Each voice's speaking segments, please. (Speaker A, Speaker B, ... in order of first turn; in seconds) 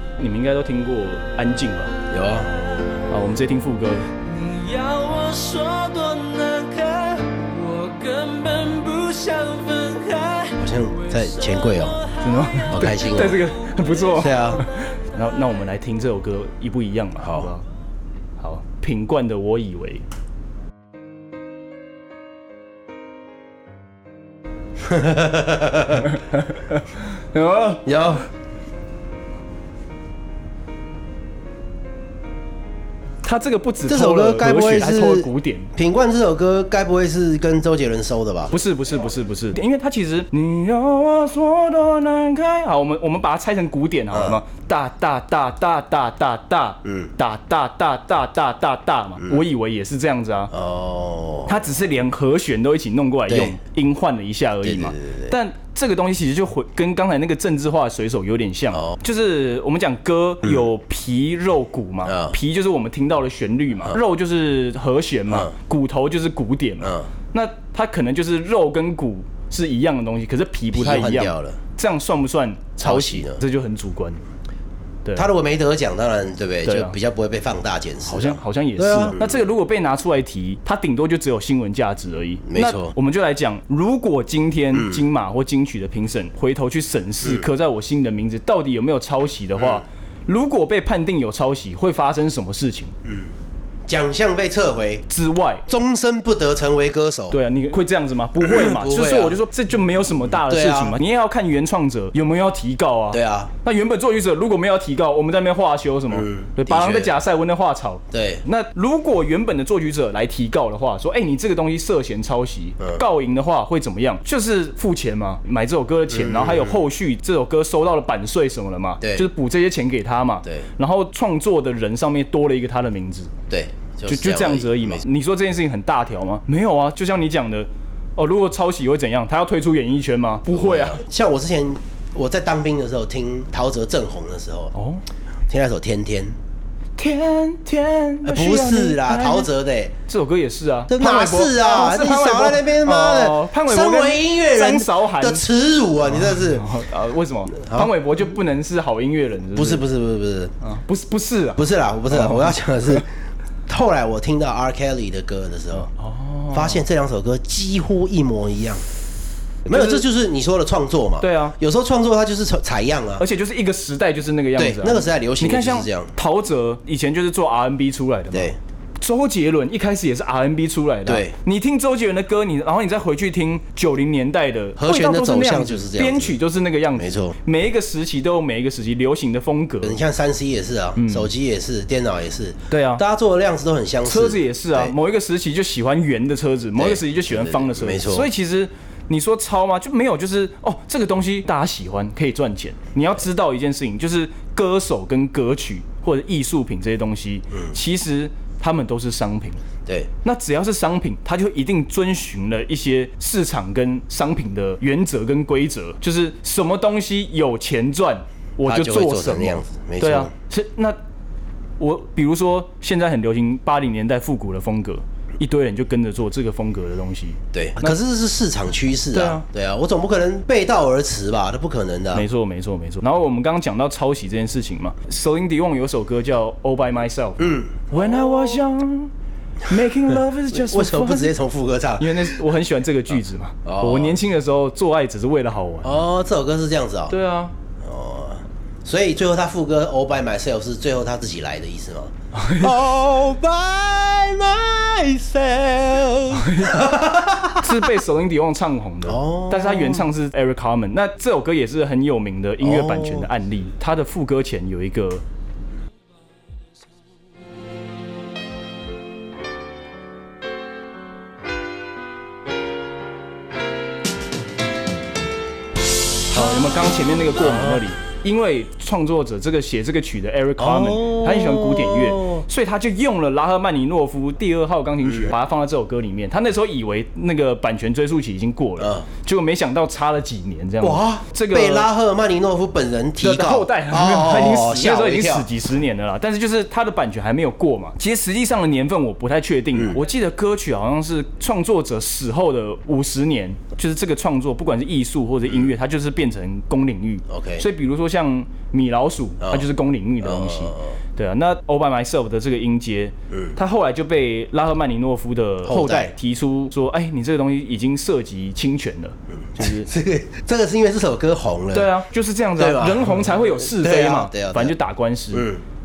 Speaker A: 0.2-1.9, 3.1-4.1, 12.2-17.6, 18.4-20.0, 26.0-27.9, 33.2-35.7, 38.5-50.5, 51.5-74.2, 76.6-77.0, 78.1-92.9, 95.1-95.6, 97.3-123.3, 124.1-131.0, 134.7-135.0, 137.0-139.5, 140.1-145.4, 146.0-149.8, 150.6-153.0, 155.7-156.8, 159.7-160.0, 161.2-161.5, 163.2-180.0, 181.0-181.3, 182.7-183.0, 184.0-199.6, 200.2-211.0, 211.8-218.0, 219.1-219.4, 222.1-229.1, 229.6-231.3, 232.0-235.9, 237.1-237.5, 242.3-242.8, 246.3-246.9, 247.5-255.2, 266.3-281.9, 283.2-309.9, 311.7-315.5
Speaker B: 2.1-2.5, 10.6-12.0, 12.7-13.4, 14.2-14.6, 17.2-17.5, 24.8-26.1, 27.8-28.2, 33.9-38.5, 44.1-44.4, 50.5-51.6, 53.3-53.6, 54.6-55.3, 62.0-62.4, 66.8-67.1, 70.7-71.6, 72.8-73.4, 75.2-79.4, 82.5-82.9, 84.7-85.0, 93.9-95.0, 95.7-97.4, 98.4-99.4, 100.5-101.0, 103.1-103.5, 106.1-107.1, 108.1-108.4, 116.1-116.8, 119.0-119.3, 123.5-125.0, 130.5-134.7, 135.5-136.3, 138.2-139.9, 140.9-146.7, 147.5-147.9, 149.5-150.5, 151.6-153.1, 153.7-155.9, 156.5-158.8, 159.7-163.2, 164.6-166.1, 168.3-168.6, 171.1-171.3, 174.8-176.3, 176.9-177.4, 179.8-184.9, 186.8-188.3, 208.7-210.3, 217.5-222.2, 227.4-228.6, 230.5-232.3, 233.6-234.2, 235.8-237.1, 237.8-247.7, 249.1-250.1, 252.6-253.3, 266.3-266.6, 267.4-267.8, 270.6-272.4, 275.1-275.3, 278.8-279.1, 280.8-285.5, 297.3-297.6, 299.4-299.6, 300.2-301.0, 305.6-306.1, 309.5-311.9, 312.6-314.7, 315.3-315.6
Speaker C: 4.2-14.1